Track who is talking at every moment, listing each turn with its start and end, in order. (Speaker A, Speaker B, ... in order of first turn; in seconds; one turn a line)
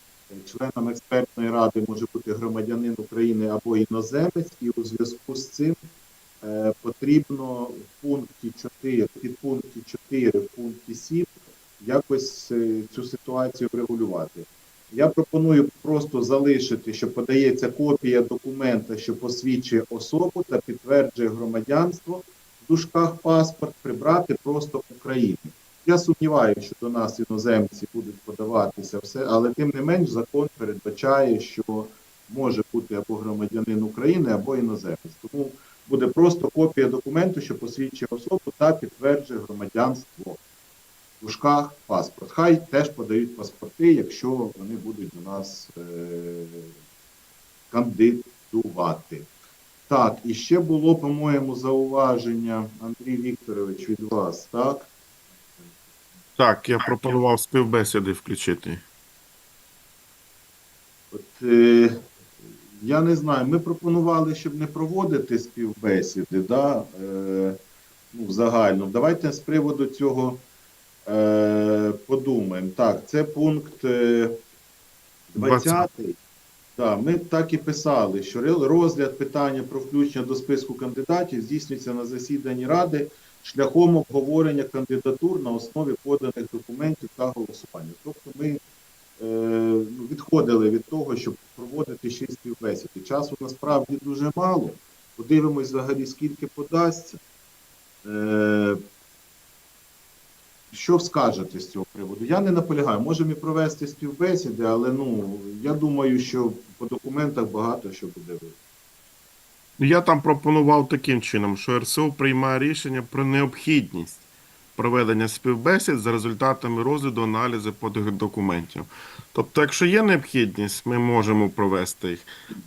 Speaker A: 0.3-5.8
Speaker A: 6.4-40.4
Speaker A: 41.2-46.7
Speaker A: 47.7-49.3
Speaker A: 49.9-54.9
Speaker B: 56.4-58.8
Speaker A: 61.1-62.0
Speaker A: 62.8-67.6
Speaker A: 68.1-70.5
Speaker A: 71.1-74.4
Speaker A: 75.3-76.2
Speaker B: 75.4-75.9
Speaker A: 76.8-88.6
Speaker A: 89.2-97.2
Speaker A: 98.0-98.8
Speaker A: 100.7-108.5
Speaker B: 109.8-114.2
Speaker B: 114.8-122.3